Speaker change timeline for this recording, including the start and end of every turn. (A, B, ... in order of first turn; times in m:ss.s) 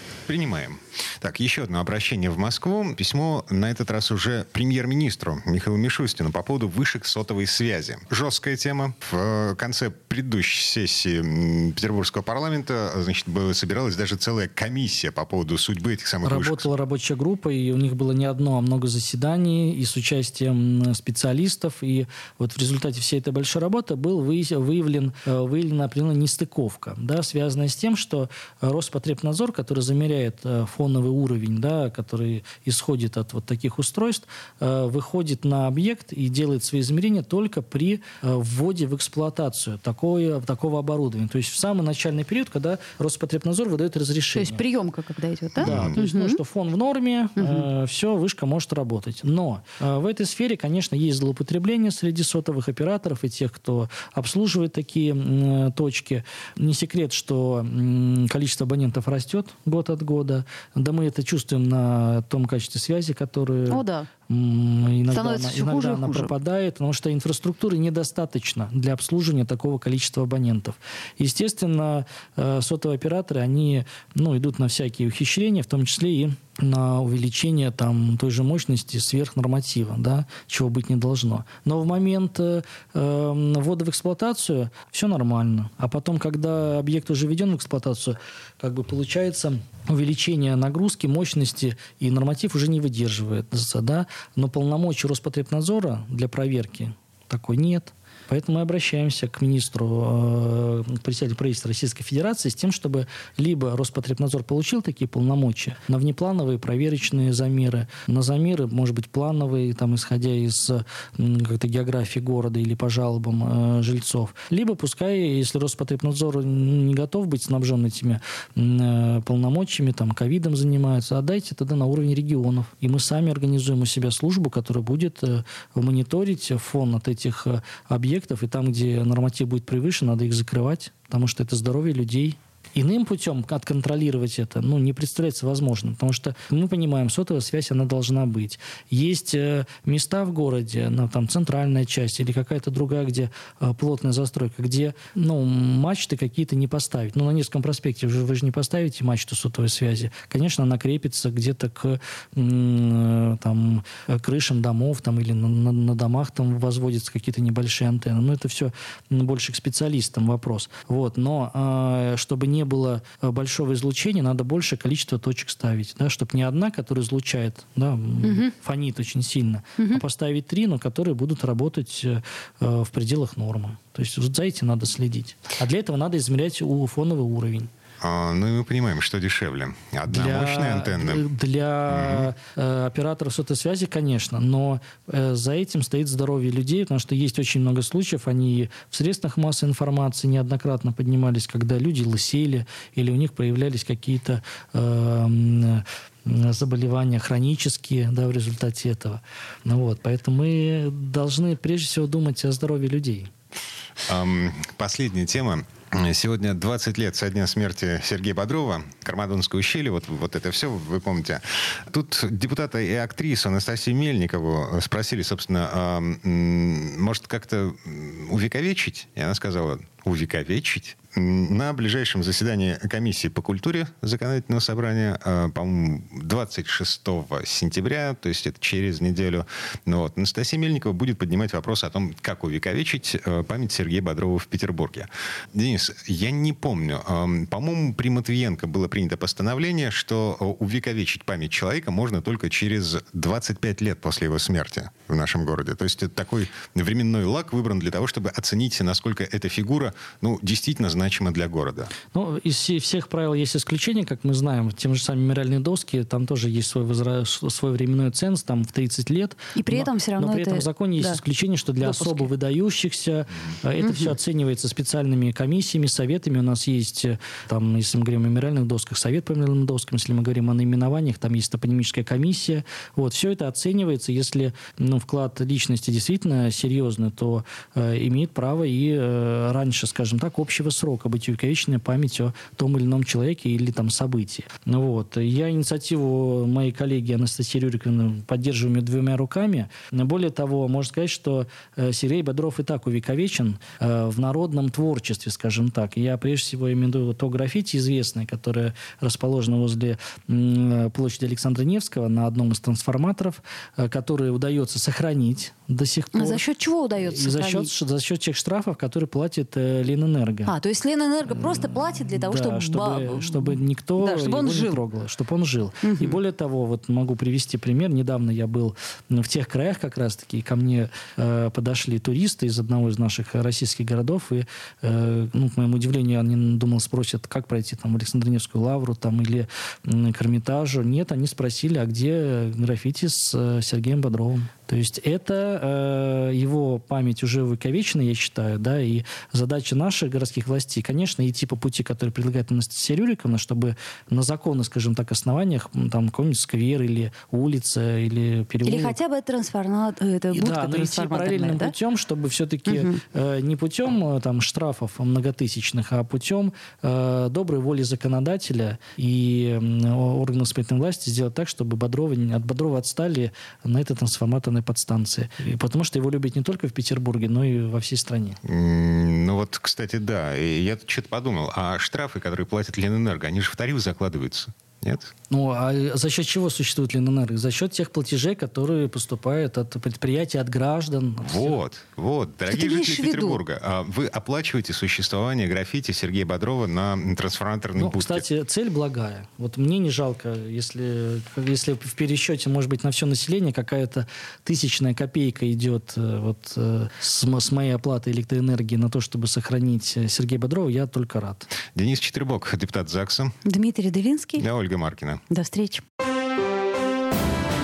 0:00.3-0:16.7 A
0:16.2-0:44.6 B
0:44.4-0:46.4 C
0:45.6-0:45.9 A
0:45.6-2:57.7 B
0:47.4-0:47.7 C
1:03.7-1:04.1 C
1:05.1-1:06.3 C
2:48.2-2:48.5 C
2:58.0-3:01.3 A
3:00.1-3:23.3 B
3:01.9-3:02.3 A
3:24.0-4:11.9 A
4:12.1-5:06.4 B
4:19.6-4:21.2 C
4:21.8-4:22.3 C
4:23.8-4:24.1 C
5:06.2-5:07.7 C
5:07.0-5:10.5 B
5:10.5-5:14.8 C
5:12.2-5:49.0 B
5:15.8-5:16.2 C
5:48.7-5:51.7 C
5:50.3-6:08.4 B
5:52.7-5:53.0 C
6:08.4-6:15.1 A
6:15.3-6:21.6 B
6:21.2-6:28.2 A
6:22.5-6:23.4 C
6:27.8-6:41.5 B
6:41.7-6:43.4 A
6:43.4-6:44.4 C
6:44.4-6:45.2 A
6:45.3-6:45.8 C